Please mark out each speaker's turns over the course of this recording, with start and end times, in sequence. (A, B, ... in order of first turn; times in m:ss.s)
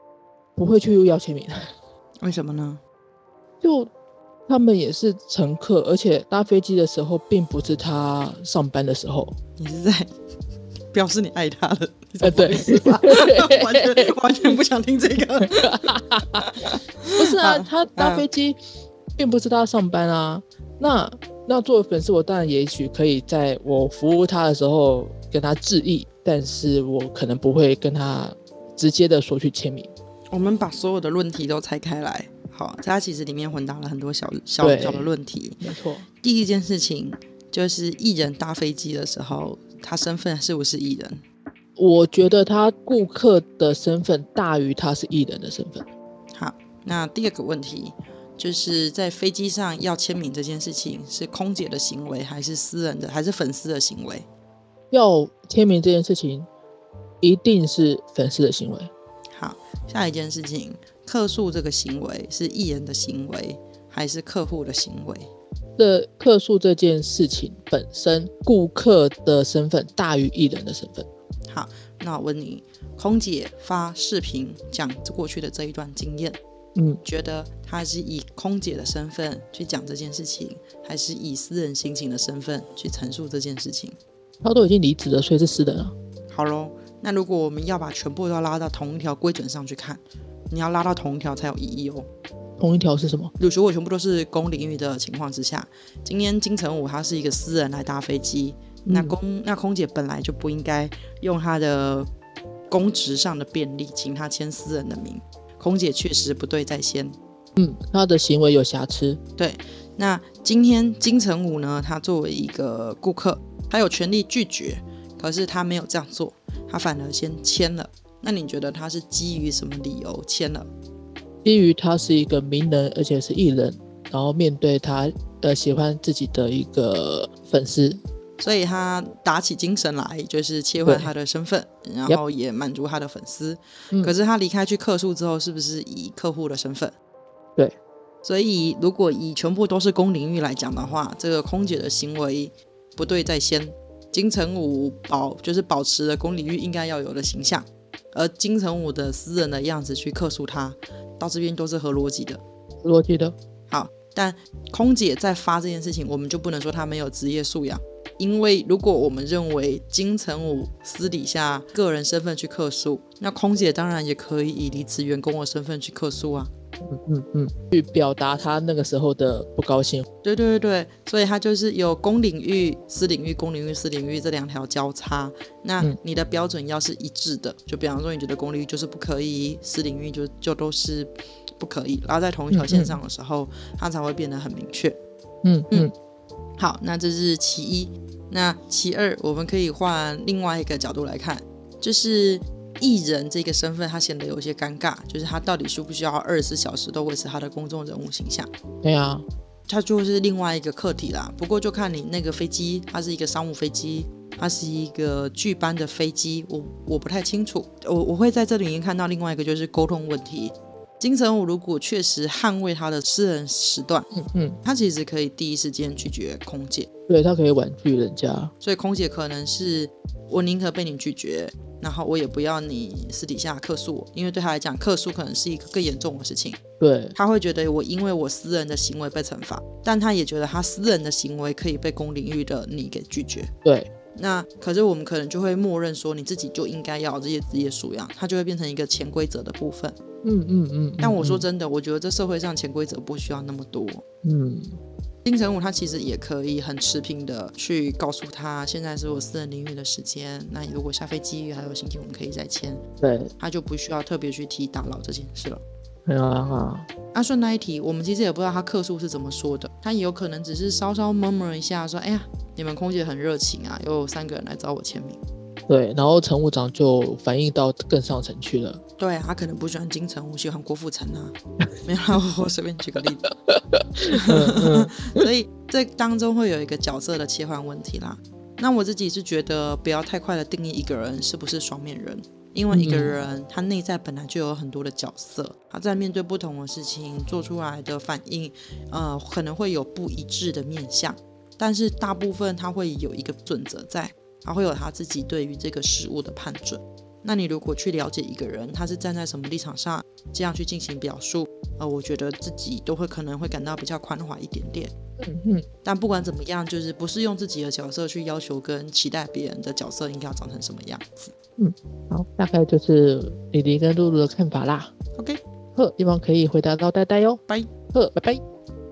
0:00.6-0:01.6 A
0:02.2-0:02.8 B
0:03.6-0:03.9 A
0:04.5-0:09.4 A
0:09.6-0:10.1 B
0:10.9-0:18.2 B
0:12.2-0:14.1 A
0:15.6-0:16.5 A
0:17.2-0:18.6 A
0:19.2-0:29.9 A
0:30.3-0:35.6 B
0:34.6-0:36.1 A
0:36.2-0:41.2 B
0:41.8-0:45.9 A
0:46.3-0:54.3 B
0:54.9-0:56.5 A
0:57.2-0:58.9 A
0:59.3-1:05.3 B
1:05.8-1:11.1 A
1:11.5-1:16.4 B
1:16.8-1:17.0 A
1:17.0-1:24.0 B
1:24.4-1:25.9 A
1:26.3-1:32.1 B
1:32.6-1:33.3 A
1:33.4-1:42.1 B
1:38.8-1:39.2 A
1:42.7-1:47.2 B
1:47.6-1:49.2 A
1:49.4-2:00.7 B
2:01.4-2:08.0 A
2:08.4-2:16.9 B
2:10.8-2:11.1 A
2:18.2-2:32.4 B
2:32.8-2:33.3 A
2:33.7-2:46.5 B
2:46.8-2:50.0 A
2:50.2-3:05.0 B
3:02.5-3:03.0 A
3:05.4-3:05.9 A
3:06.6-3:18.5 B
3:18.8-3:19.2 A
3:19.7-3:34.1 B
3:34.1-3:34.6 A
3:34.6-3:36.9 B
3:37.1-3:38.5 A
3:38.6-3:46.6 B
3:46.8-3:47.1 A
3:47.1-3:53.5 B
3:53.6-3:53.9 A
3:54.1-4:00.0 B
4:00.2-4:01.4 A
4:01.0-4:04.0 B
4:04.2-4:04.8 A
4:05.2-4:12.8 B
4:13.0-4:13.3 A
4:13.4-4:15.6 B
4:16.0-4:16.9 A
4:17.1-4:25.2 B
4:25.7-4:28.8 A
4:29.0-4:33.2 B
4:33.5-4:35.2 A
4:34.1-5:04.9 B
4:42.7-4:43.1 A
5:05.2-5:05.6 A
5:05.8-5:11.3 B
5:11.6-5:14.9 A
5:15.2-5:15.4 B
5:15.8-5:17.4 A
5:17.9-5:18.4 A